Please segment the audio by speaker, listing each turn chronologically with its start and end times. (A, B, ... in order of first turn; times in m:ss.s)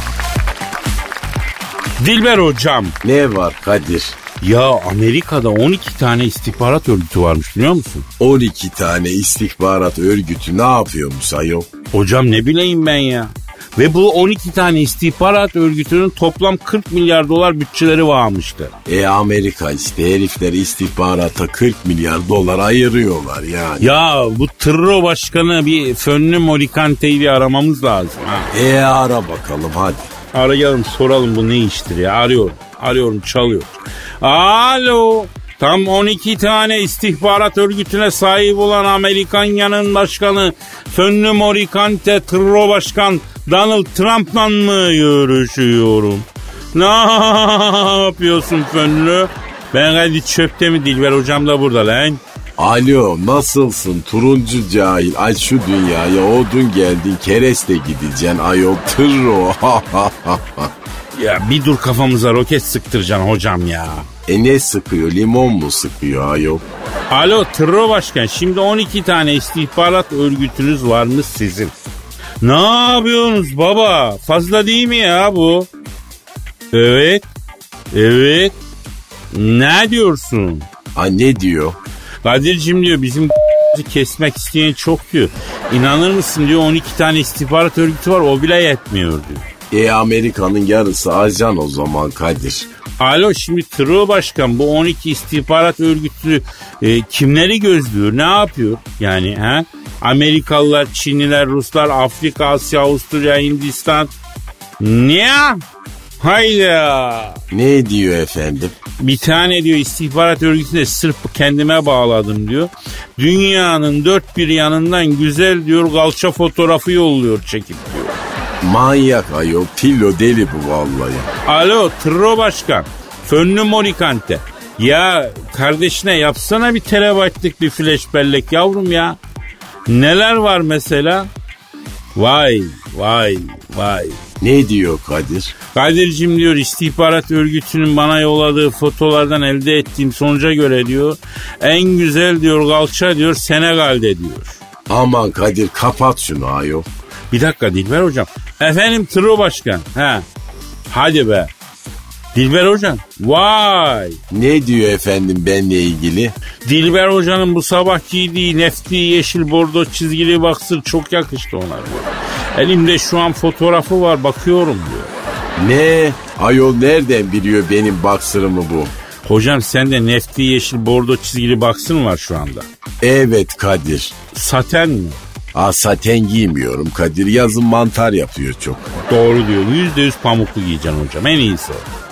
0:02.0-0:02.9 A
0:03.0-0:04.2 B
0:04.4-0:08.0 A
0:08.2-0:11.7 B
0:11.9-0:18.7 A
0:18.8-0:23.9 B
0:23.8-0:28.5 A
0:28.5-0:30.1 B
0:30.3-0:52.2 A
0:52.6-1:00.7 B
1:01.1-1:04.1 A
1:04.3-1:06.6 B
1:07.1-1:11.7 A
1:12.4-1:15.7 A
1:16.7-1:17.2 A
1:17.9-1:18.6 A
1:19.3-1:20.6 A
1:20.9-1:21.8 B
1:22.2-1:29.4 A
1:29.7-1:32.7 B
1:33.0-1:44.1 A
1:44.8-1:45.6 A
1:46.2-1:47.4 A
1:47.5-1:48.7 B
1:49.0-1:58.2 A
1:58.6-2:01.3 B
2:01.4-2:09.2 A
2:09.9-2:11.3 A
2:12.1-2:14.2 A
2:14.4-2:15.5 B
2:15.7-2:24.6 A
2:24.9-2:26.9 B
2:27.3-2:30.2 A
2:30.9-2:31.5 A
2:32.3-2:34.2 A
2:34.3-2:36.3 B
2:36.6-2:45.1 A
2:45.6-2:48.9 B
2:49.2-2:52.7 A
2:53.0-2:54.1 B
2:54.3-2:55.2 A
2:55.5-2:58.9 B
2:59.0-3:01.8 A